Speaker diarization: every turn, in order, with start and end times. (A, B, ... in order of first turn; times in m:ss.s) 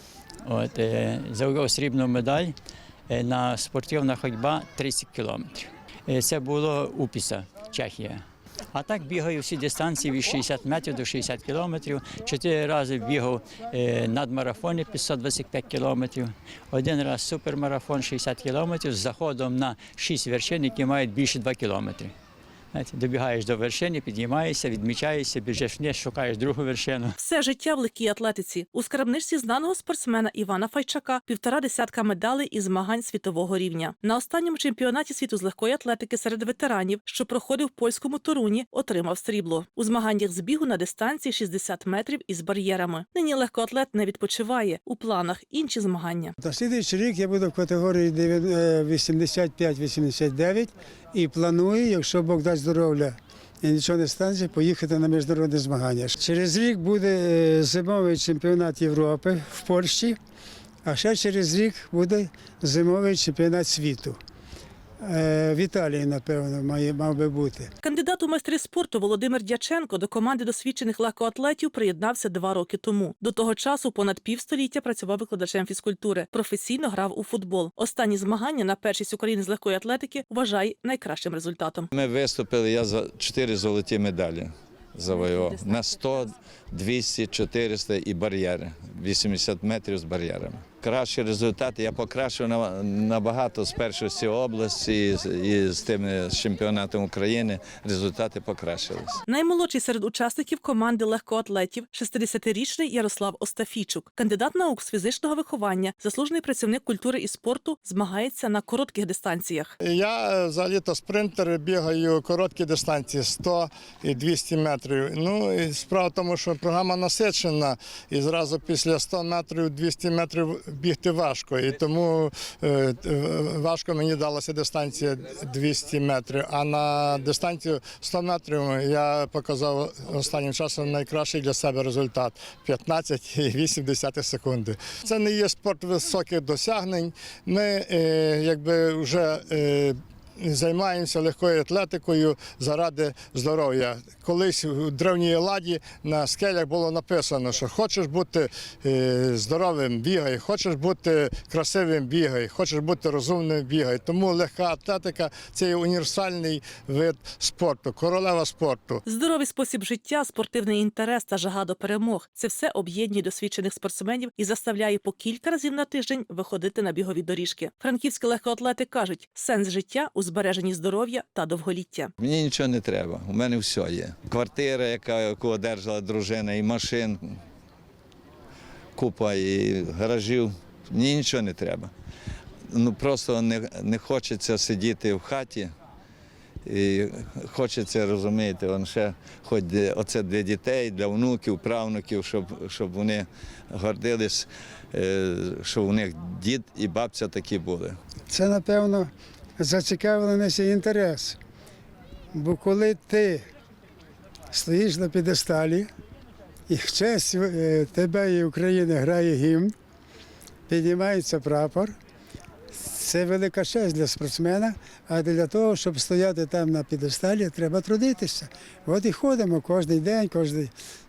0:00.4-0:02.5 A
0:03.1-0:22.1 A
0:22.7-0:27.1 A
0:27.2-0:46.4 B
0:46.4-1:00.2 C
1:00.8-1:04.2 C
1:05.0-1:07.7 C
1:07.8-1:21.9 B
1:21.9-1:39.2 D
1:39.3-1:49.7 B
1:49.8-2:39.0 E
2:39.0-2:52.1 B
2:52.2-2:57.3 D
2:59.0-3:01.9 D
3:02.7-3:05.7 D
3:06.6-3:18.0 D
3:18.3-3:21.4 C
3:22.3-3:23.4 C
3:24.5-3:25.9 C
3:26.7-3:29.7 C
3:30.7-3:31.9 C
3:32.7-3:40.7 C